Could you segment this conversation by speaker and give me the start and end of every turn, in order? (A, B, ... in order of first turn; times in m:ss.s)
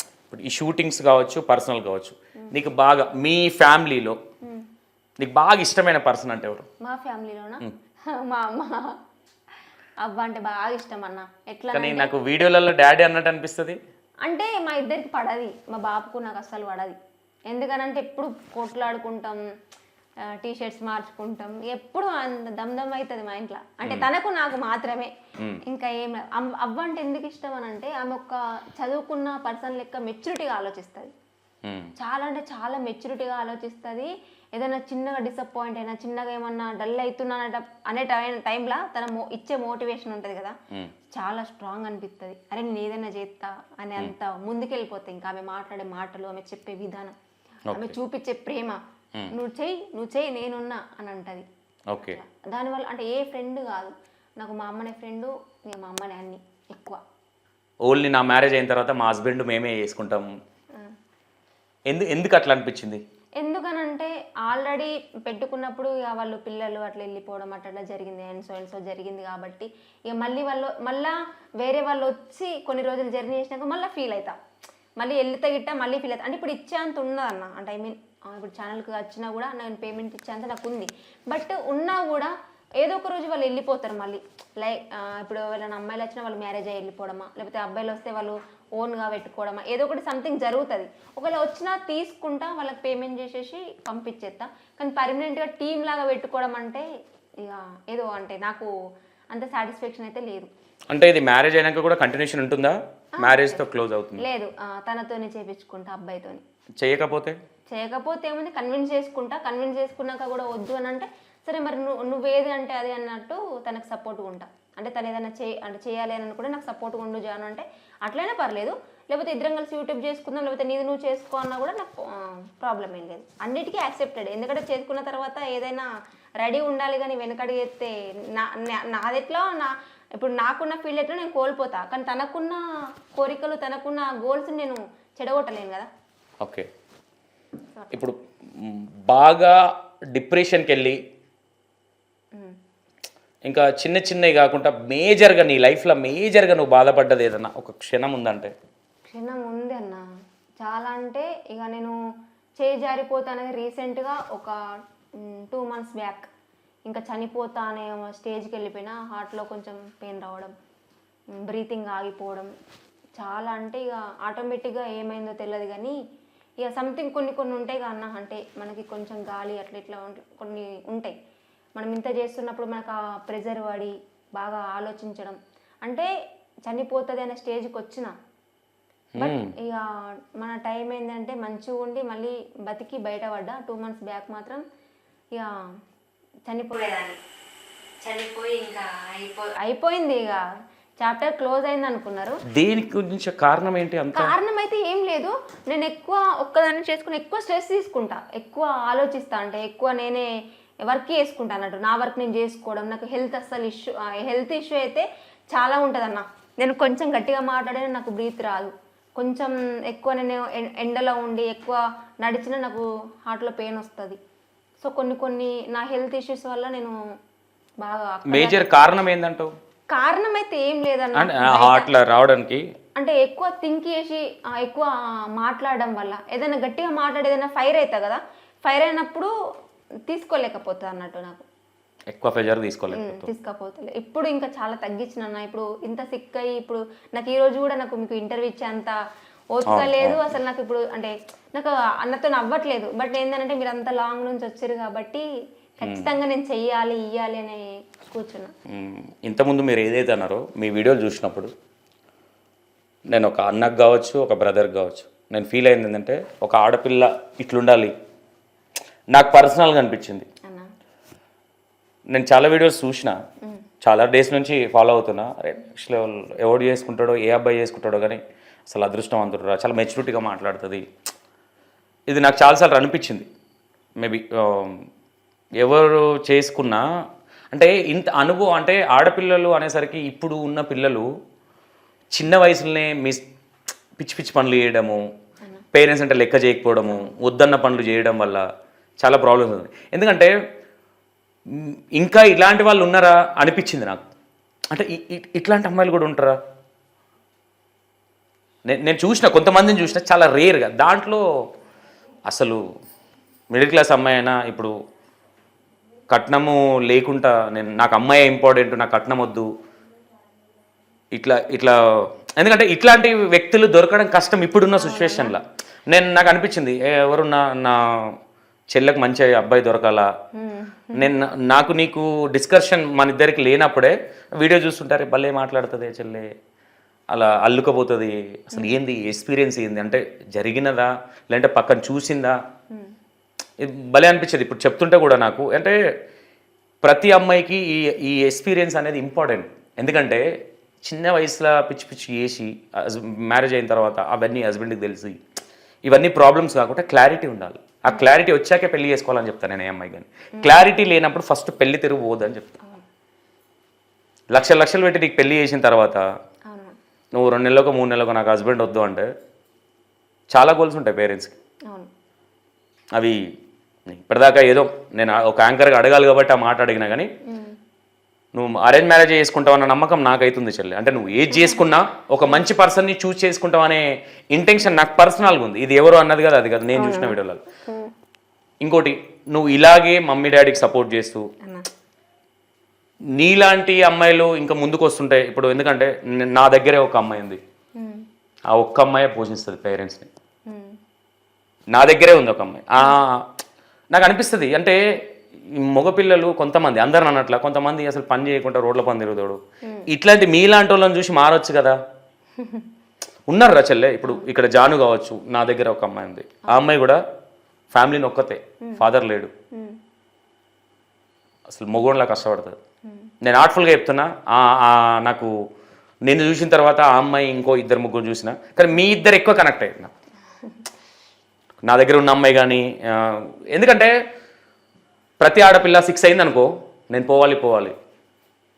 0:00.3-0:04.2 A
0:05.2-0:06.7 A
0:06.8-0:09.0 B
0:10.0-0:12.1 B
0:11.7-0:13.8 A
0:14.2-0:17.0 B
0:17.5-0:19.4 B
0:20.4-0:25.1 B
0:25.6-0:31.1 B
0:31.6-0:31.9 A
0:32.0-0:40.6 B
0:41.1-0:47.1 B
0:47.7-0:48.0 A
0:47.7-0:48.8 B
0:49.3-0:51.4 B
0:51.9-0:52.2 A
0:52.0-0:57.0 B
0:57.8-1:00.3 A
1:01.9-1:03.0 A
1:03.4-1:14.4 B
1:15.0-1:36.8 B
1:37.4-1:38.7 B
1:39.3-1:40.5 B
1:40.9-1:44.2 A
1:43.2-1:43.6 B
1:44.2-1:46.4 B
1:46.8-1:47.4 A
1:47.7-2:05.9 B
2:06.4-2:12.6 B
2:13.1-2:15.9 B
2:16.4-2:16.7 A
2:17.7-2:18.1 B
2:17.9-2:21.0 A
2:23.5-2:28.5 A
2:29.1-2:30.0 B
2:30.6-2:31.9 B
2:32.6-2:34.5 B
2:35.2-2:36.3 B
2:36.9-2:40.5 B
2:41.4-2:42.5 B
2:43.2-2:46.0 B
2:46.6-2:51.1 B
2:51.8-2:56.1 B
2:56.6-2:58.1 B
2:59.2-2:59.5 A
2:59.2-3:04.6 B
3:06.5-3:07.2 B
3:08.0-3:10.4 B
3:11.0-3:12.4 B
3:12.5-3:14.3 A
3:14.1-3:20.3 B
3:20.8-3:34.2 B
3:34.8-3:37.0 B
3:37.8-3:38.6 B
3:38.3-3:39.5 A
3:39.9-3:41.9 B
3:41.1-3:42.6 A
3:43.0-3:49.3 B
3:50.1-3:51.4 B
3:52.1-3:53.3 A
3:52.9-3:59.0 B
3:59.5-4:05.2 B
3:59.7-4:00.2 A
4:05.8-4:08.5 B
4:05.8-4:06.1 A
4:08.7-4:11.5 A
4:13.1-4:17.9 A
4:19.1-4:20.3 A
4:22.1-4:23.2 A
4:23.8-4:30.8 A
4:32.1-4:33.3 A
4:34.0-4:34.8 A
4:35.6-4:36.8 A
4:37.5-4:41.1 A
4:42.1-4:43.2 A
4:44.0-4:45.0 A
4:45.7-4:48.4 A
4:49.0-4:50.3 A
4:51.5-4:54.0 A
4:54.7-4:56.4 A
4:58.7-5:01.2 A
5:02.3-5:02.6 A
5:03.5-5:04.7 A
5:06.1-5:09.5 A
5:11.1-5:11.8 A
5:12.4-5:18.1 A
5:14.8-5:15.4 B
5:18.7-5:20.1 A
5:20.3-5:21.1 B
5:20.9-5:26.3 A
5:27.1-5:32.4 A
5:33.6-5:35.8 A
5:36.8-5:40.2 A
5:40.8-5:45.2 A
5:45.9-5:52.6 A
5:54.3-5:56.0 A
5:56.5-5:56.8 B
5:57.1-5:59.1 A
6:00.3-6:01.4 A
6:03.0-6:03.2 A
6:03.9-6:07.1 A
6:07.3-6:07.6 B
6:08.3-6:17.4 A
6:16.7-6:17.9 B
6:18.6-6:21.2 A
6:23.2-6:27.4 A
6:27.8-6:28.0 B
6:28.5-6:30.1 A
6:30.5-6:30.8 B
6:31.7-6:33.3 A
6:33.9-6:34.8 A
6:35.5-6:41.8 A
6:42.4-6:42.7 B
6:43.3-6:47.0 A
6:47.7-6:49.3 A
6:49.5-6:49.8 B
6:51.5-6:52.6 A
6:53.2-6:55.3 A
6:56.1-6:59.9 A
7:01.6-7:03.9 A
7:05.2-7:07.7 A